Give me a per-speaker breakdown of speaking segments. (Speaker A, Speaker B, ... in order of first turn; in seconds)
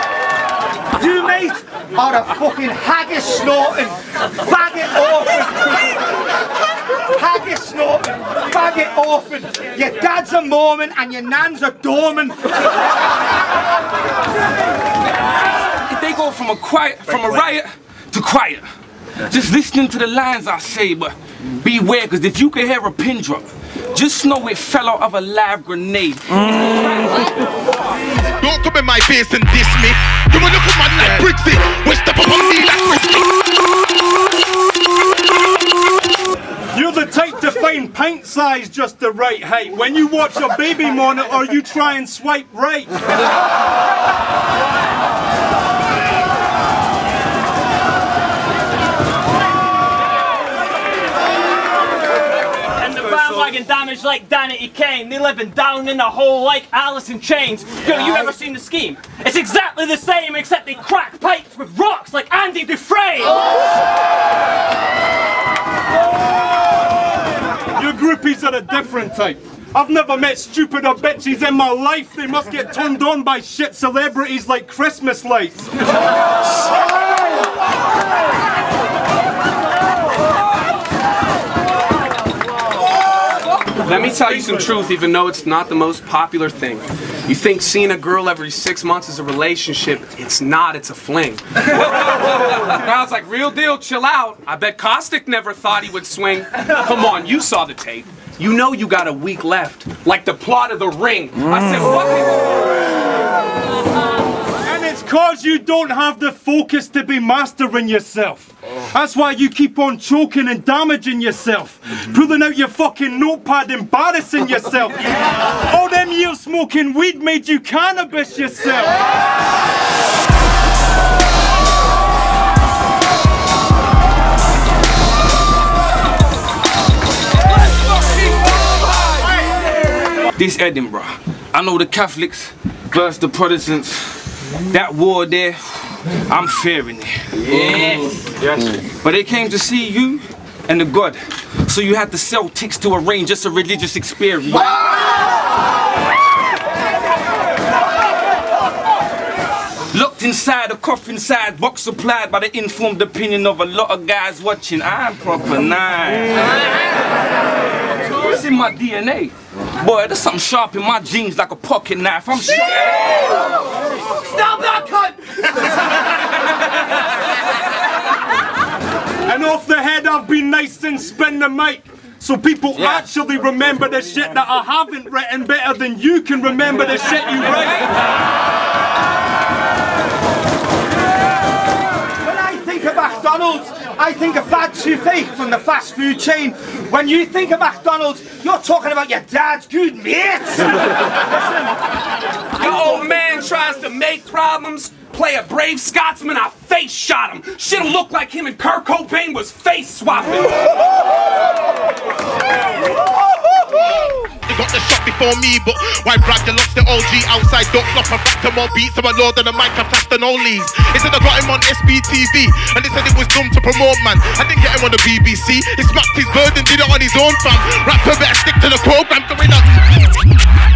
Speaker A: 1.0-6.2, 7.0-12.5, 182.2-191.0
Speaker B: 15.6-18.6, 19.3-27.1, 130.4-138.1, 138.7-144.9, 150.1-156.6, 158.1-163.3
Speaker C: 28.4-33.3, 136.2-136.5, 137.8-138.5, 151.0-151.3, 151.9-152.1, 152.8-153.2, 204.5-219.9
Speaker D: 36.7-43.0, 67.7-75.7, 104.6-115.1, 115.6-119.0, 169.2-177.8
Speaker E: 52.6-63.5
Speaker F: 83.8-102.7, 164.1-165.6, 192.6-200.8